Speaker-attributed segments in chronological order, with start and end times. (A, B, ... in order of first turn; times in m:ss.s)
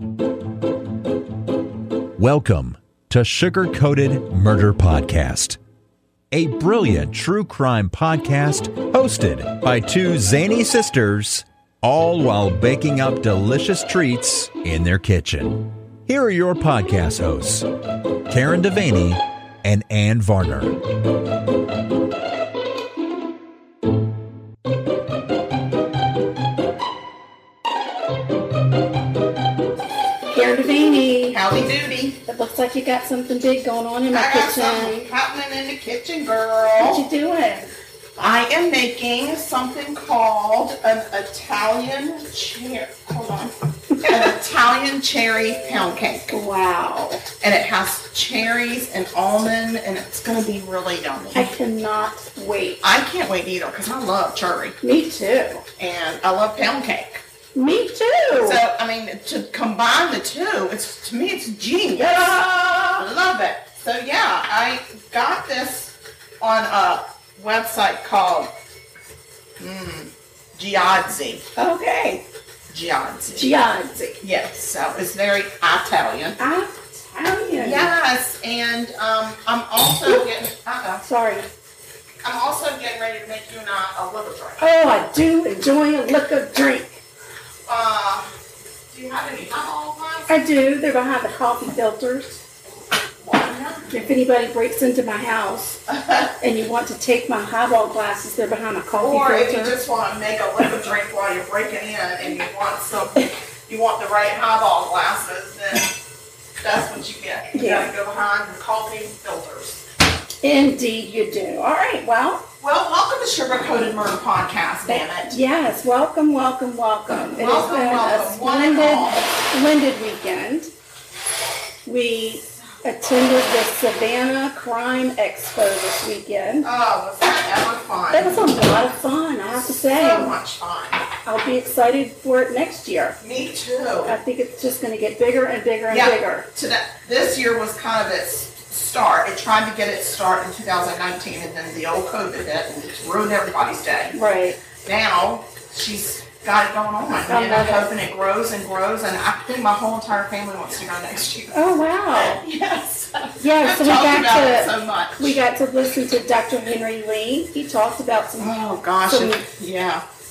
0:02.2-0:05.6 A
0:06.3-0:17.7 A
0:18.3-0:20.8 A
0:30.3-0:31.4 B
0:31.3-0:32.2 C
0:32.2-0:35.1 B
0:34.1-0:37.1 C
0:36.8-0:37.7 B
0:38.2-0:46.3 C
0:44.0-0:44.2 B
0:46.3-0:47.3 B
0:47.4-0:51.5 C
0:51.3-0:52.8 B
0:52.8-0:54.8 C
0:54.8-0:55.6 B
0:55.8-0:57.2 C
0:57.6-0:58.6 B
0:58.3-1:02.4 C
1:02.0-1:03.1 B
1:03.0-1:08.6 C
1:09.6-1:11.5 C
1:11.6-1:12.3 B
1:12.7-1:13.5 C
1:13.3-1:14.2 B
1:14.2-1:16.4 C
1:16.4-1:17.9 B
1:17.6-1:21.0 C
1:21.0-1:21.5 B
1:22.2-1:24.6 C
1:24.6-1:27.0 B
1:27.7-1:28.3 C
1:28.9-1:30.3 C
1:30.3-1:32.4 B
1:33.2-1:33.9 C
1:33.9-1:35.8 B
1:35.9-1:36.3 C
1:36.4-1:39.8 B
1:39.0-1:46.0 C
1:46.6-1:49.9 C
1:47.5-1:47.9 B
1:50.4-1:52.5 B
1:52.6-1:55.4 C
1:54.9-2:00.7 B
1:57.4-1:59.3 C
2:01.8-2:06.7 B
2:06.6-2:08.5 C
2:08.1-2:10.4 B
2:09.8-2:11.0 C
2:11.2-2:13.2 B
2:13.2-2:14.2 C
2:14.0-2:16.5 B
2:15.9-2:24.2 C
2:24.1-2:24.6 B
2:24.8-2:35.4 C
2:27.3-2:27.9 B
2:31.5-2:32.4 B
2:33.4-2:39.5 B
2:38.4-2:40.0 C